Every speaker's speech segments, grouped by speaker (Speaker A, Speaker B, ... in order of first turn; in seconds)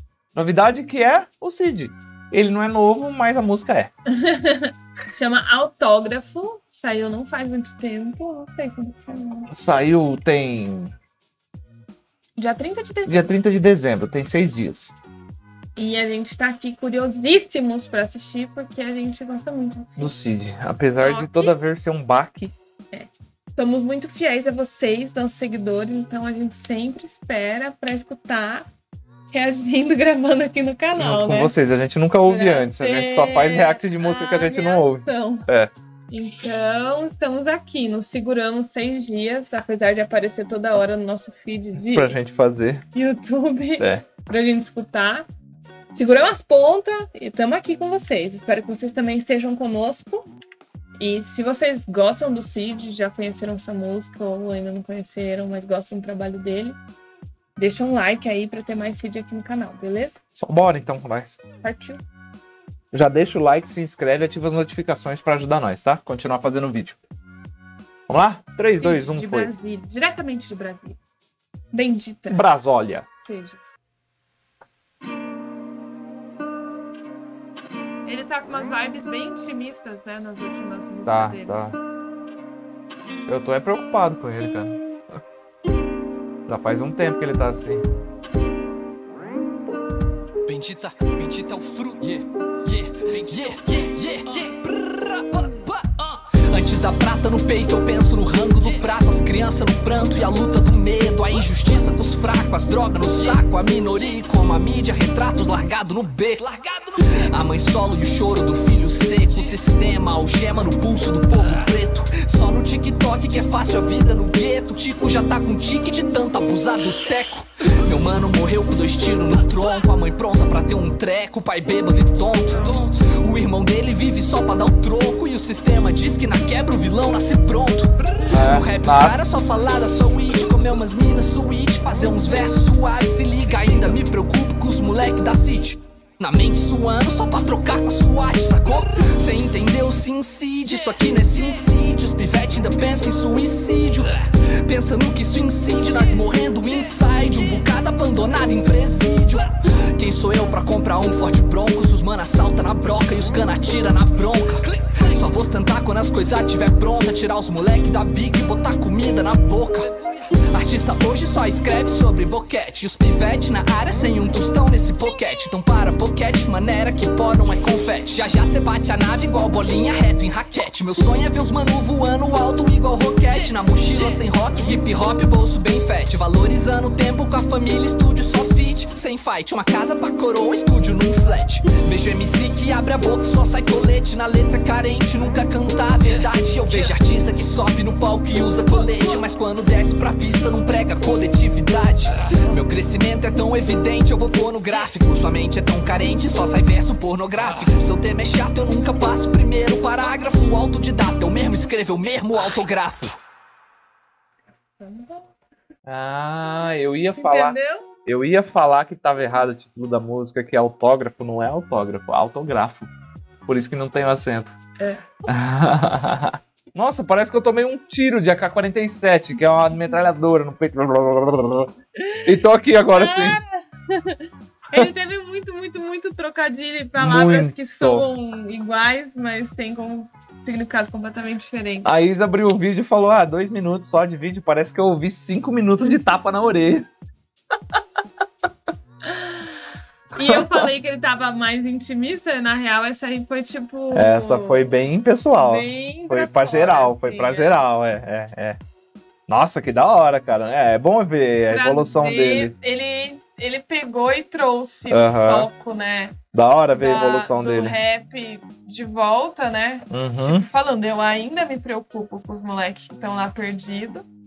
Speaker A: 0.3-3.9, 9.5-10.9, 13.1-14.9, 20.0-22.5, 31.0-35.7, 41.8-42.8, 43.8-44.1, 60.4-61.4, 62.9-67.0, 68.1-69.5, 72.3-73.1, 81.0-81.8, 83.3-85.2, 86.5-87.8, 128.3-129.2, 205.8-212.9, 213.4-214.5, 215.3-221.7, 222.2-223.4, 227.0-228.1, 231.8-236.9, 240.2-240.7, 243.9-248.6, 249.3-252.5, 254.9-255.5, 256.3-257.8, 259.9-260.5
Speaker B: 4.1-9.5, 12.3-13.3, 15.8-20.1, 21.0-21.5, 22.9-28.7, 29.3-31.6, 32.2-35.5, 36.1-42.1, 42.9-45.2, 45.9-50.3, 51.0-56.8, 57.5-60.2, 61.6-62.0, 68.8-71.0, 71.7-72.5, 73.2-73.6, 78.0-81.6, 204.7-205.3, 207.2-207.9, 214.8-215.3, 219.5-220.0, 222.0-222.3, 222.9-231.9, 239.0-239.5, 240.1-244.8, 245.3-247.6, 251.5-256.1, 256.7-264.1
Speaker C: 90.5-203.2